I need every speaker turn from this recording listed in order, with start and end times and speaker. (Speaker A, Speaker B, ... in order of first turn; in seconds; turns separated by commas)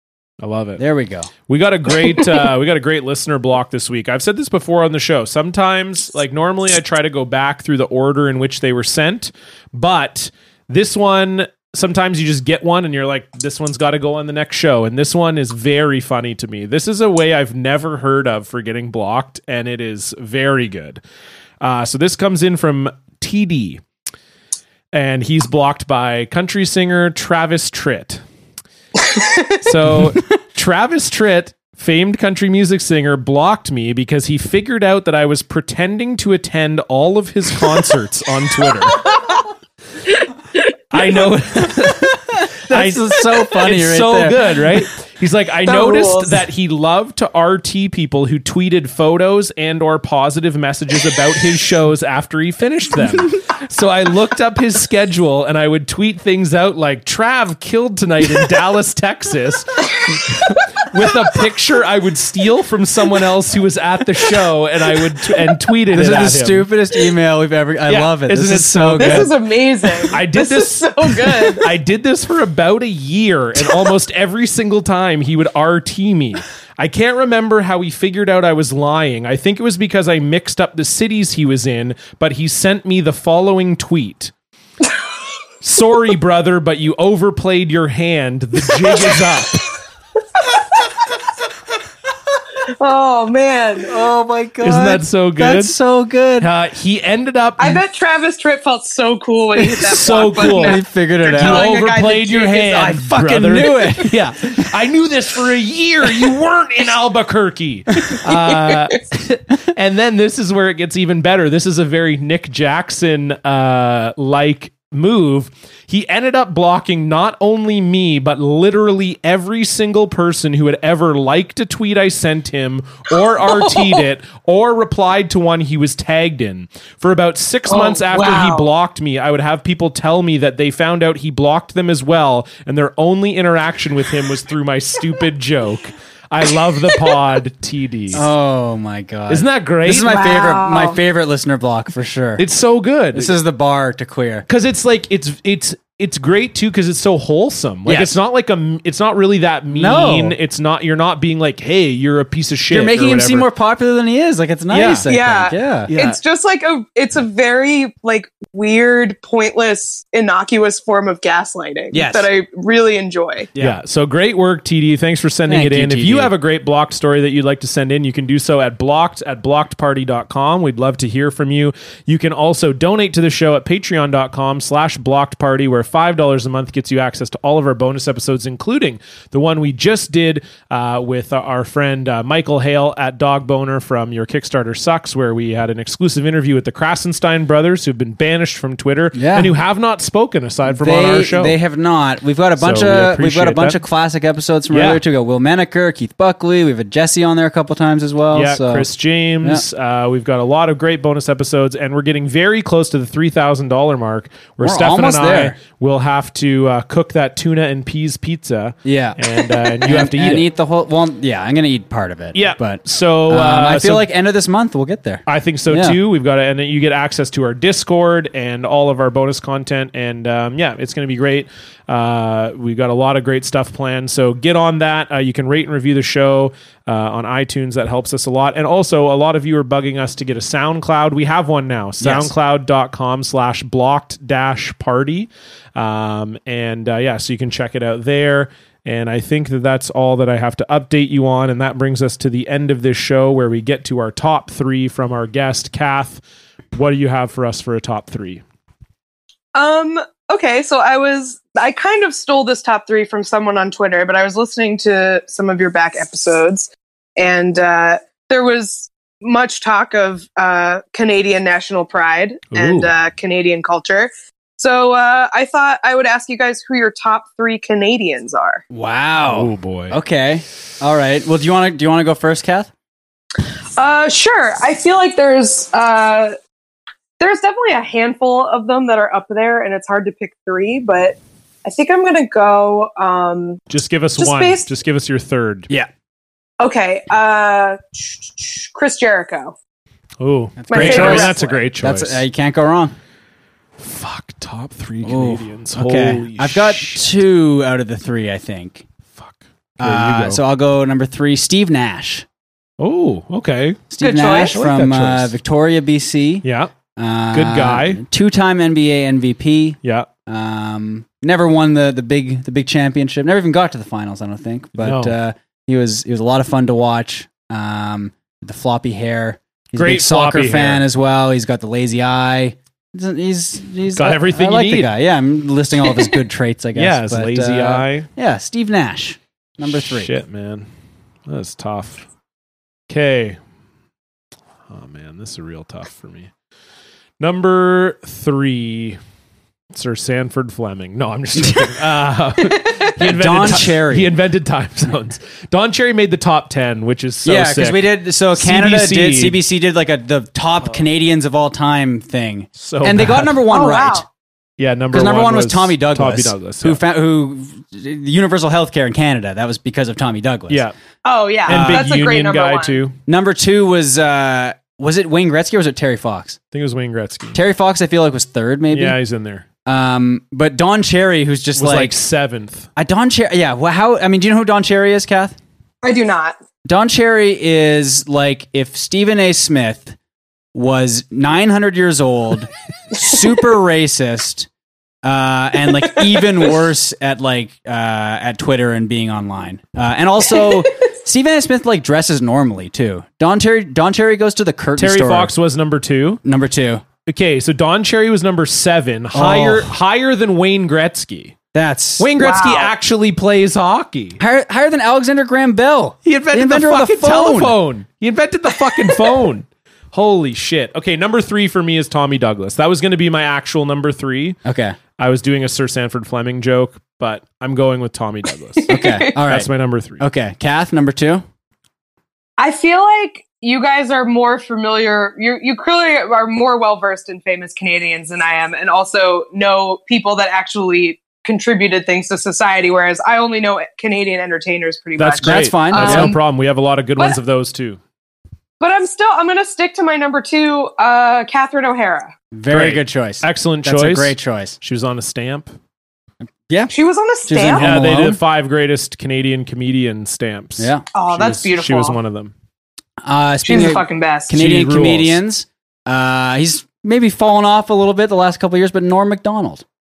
Speaker A: 0.4-0.8, Speaker B: 0.8-1.3, Speaker A: 1.5-21.0, Speaker A: 21.6-23.8, Speaker A: 24.9-28.2, Speaker C: 29.1-29.6, Speaker A: 29.6-39.0, Speaker C: 38.9-39.4, Speaker A: 40.9-66.7, Speaker B: 42.0-44.6, Speaker C: 45.6-46.4, Speaker B: 65.9-69.3, Speaker A: 67.9-69.3, Speaker C: 69.0-71.7, Speaker A: 70.1-84.3, Speaker A: 85.6-89.7, Speaker C: 92.6-94.0, Speaker B: 93.8-96.5, Speaker A: 94.6-95.8, Speaker A: 96.4-97.8, Speaker C: 97.6-103.0, Speaker A: 99.8-138.3, Speaker B: 100.3-101.8, Speaker B: 102.8-104.7, Speaker C: 108.3-108.8, Speaker C: 123.4-124.0, Speaker C: 127.7-128.7, Speaker B: 138.1-142.4, Speaker A: 139.3-140.2, Speaker C: 140.0-141.0, Speaker A: 142.4-143.3, Speaker B: 143.1-144.4, Speaker A: 144.5-153.5, Speaker B: 147.8-148.2, Speaker B: 149.7-150.4, Speaker B: 152.7-155.9, Speaker A: 154.7-155.1, Speaker C: 155.1-163.5, Speaker A: 155.9-156.2, Speaker B: 161.9-162.3, Speaker A: 163.6-191.6, Speaker B: 165.5-166.3, Speaker B: 189.1-189.5, Speaker B: 190.7-198.9, Speaker A: 192.6-193.8, Speaker A: 194.7-195.0, Speaker A: 198.3-210.4, Speaker B: 204.6-205.6, Speaker B: 208.8-216.0, Speaker A: 212.3-214.1, Speaker A: 215.2-246.2, Speaker B: 232.0-232.3, Speaker A: 246.7-248.4, Speaker C: 249.5-268.6, Speaker A: 262.5-262.9, Speaker B: 268.7-272.7, Speaker A: 269.2-270.0, Speaker C: 273.8-276.3, Speaker C: 277.2-283.6, Speaker A: 283.7-285.7, Speaker C: 284.2-284.7, Speaker C: 286.6-289.6, Speaker A: 290.2-292.2, Speaker B: 290.6-292.9, Speaker C: 290.7-291.4, Speaker A: 293.8-297.2, Speaker B: 295.0-298.8, Speaker A: 299.1-300.4, Speaker B: 299.8-302.2, Speaker A: 302.8-305.3, Speaker B: 303.9-306.4, Speaker C: 304.0-304.6, Speaker A: 306.4-306.7, Speaker B: 306.9-330.1, Speaker A: 307.3-308.0, Speaker A: 309.8-310.1, Speaker A: 314.8-315.1, Speaker A: 319.7-320.9, Speaker A: 323.9-324.9, Speaker A: 326.7-328.1, Speaker A: 329.7-330.7, Speaker A: 331.2-332.0, Speaker A: 332.9-333.4, Speaker A: 334.7-336.3, Speaker A: 337.2-339.0, Speaker A: 339.7-349.4, Speaker B: 342.9-344.1, Speaker B: 347.2-354.0, Speaker A: 350.6-350.9, Speaker A: 352.6-353.5, Speaker C: 353.5-354.1, Speaker A: 354.6-356.8, Speaker B: 354.9-360.6, Speaker A: 360.5-360.7, Speaker C: 361.0-362.8, Speaker A: 361.4-363.0, Speaker B: 361.5-362.0, Speaker B: 363.1-366.4, Speaker A: 366.5-367.4, Speaker B: 367.3-369.0, Speaker A: 368.7-369.4, Speaker B: 369.6-371.9, Speaker A: 371.6-372.7, Speaker B: 372.8-375.4, Speaker C: 375.8-376.4, Speaker B: 376.6-379.9, Speaker B: 380.5-384.5, Speaker B: 385.0-395.3, Speaker A: 394.8-396.2, Speaker B: 396.2-396.8, Speaker A: 397.1-401.4, Speaker B: 399.1-399.7, Speaker B: 401.5-402.1, Speaker A: 402.0-404.2, Speaker C: 402.2-402.7, Speaker B: 404.2-407.6, Speaker A: 406.0-414.4, Speaker B: 414.4-414.8, Speaker A: 415.0-420.0, Speaker C: 418.6-419.1, Speaker B: 418.7-419.5, Speaker B: 420.0-421.2, Speaker C: 422.4-436.2, Speaker A: 435.0-437.8, Speaker B: 435.2-436.1, Speaker C: 438.6-442.1, Speaker B: 442.3-444.6, Speaker A: 442.5-445.5, Speaker C: 446.7-447.7, Speaker B: 447.3-448.2, Speaker A: 447.6-452.3, Speaker B: 450.6-451.4, Speaker C: 450.9-452.0, Speaker B: 453.0-459.6, Speaker C: 453.4-454.3, Speaker A: 454.3-455.2